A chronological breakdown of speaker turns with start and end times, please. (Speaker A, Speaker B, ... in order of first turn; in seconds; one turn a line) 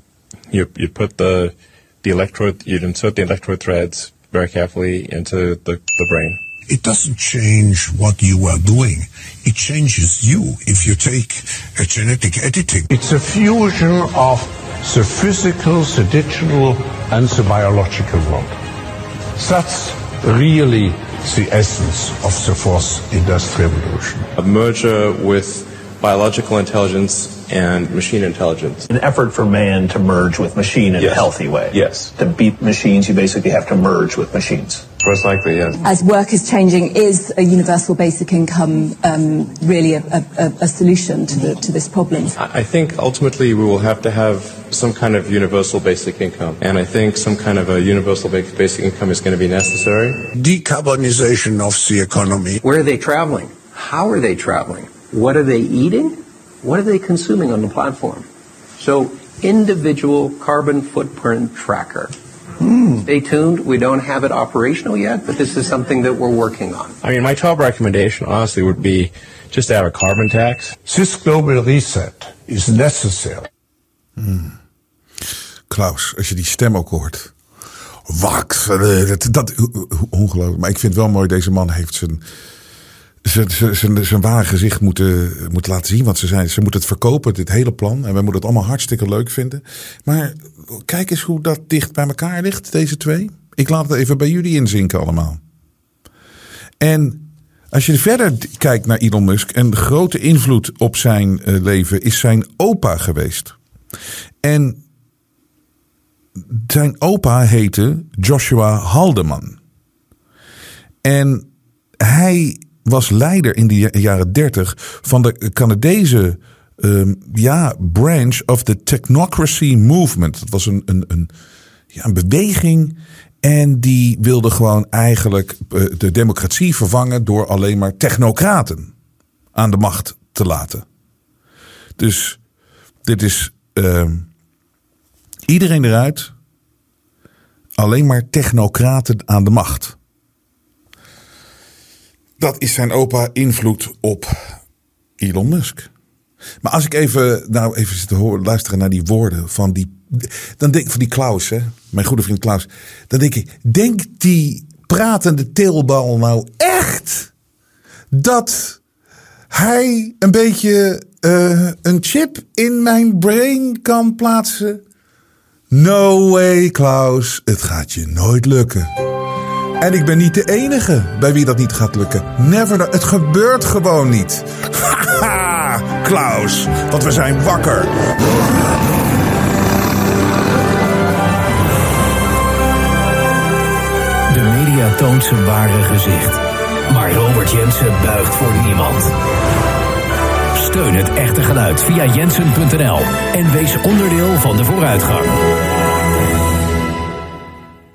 Speaker A: 0.5-6.4
Speaker B: 6.7-18.6
Speaker B: 19.4-24.3
Speaker A: 24.4-28.9
Speaker C: 28.9-34.9
Speaker A: 31.0-32.1
Speaker A: 35.0-35.8
Speaker D: 35.8-42.4
Speaker A: 42.4-50.2
Speaker B: 50.3-52.6
Speaker E: 52.6-58.3
Speaker E: 58.8-67.0
Speaker A: 67.0-70.8
Speaker B: 70.8-73.5
Speaker F: 74.2-74.5
Speaker F: 75.7-77.3
Speaker F: 78.1-82.2
Speaker F: 83.2-95.4
Speaker F: 96.8-103.5
Speaker F: 104.4-104.8
Speaker F: 106.5-109.6
Speaker F: 111.0-111.5
Speaker F: 112.0-121.3
Speaker F: 121.9-128.9
Speaker F: 129.5-130.8
Speaker F: 132.0-132.4
Speaker F: 133.0-134.2
Speaker F: 135.5-136.3
Speaker F: 137.8-139.9
Speaker F: 142.4-144.5
Speaker F: 145.2-145.9
Speaker F: 146.6-157.3
Speaker F: 158.1-158.8
Speaker F: 159.5-164.8
Speaker F: 165.7-168.9
Speaker F: 169.8-177.9
Speaker G: 184.3-189.1
Speaker G: 190.5-195.4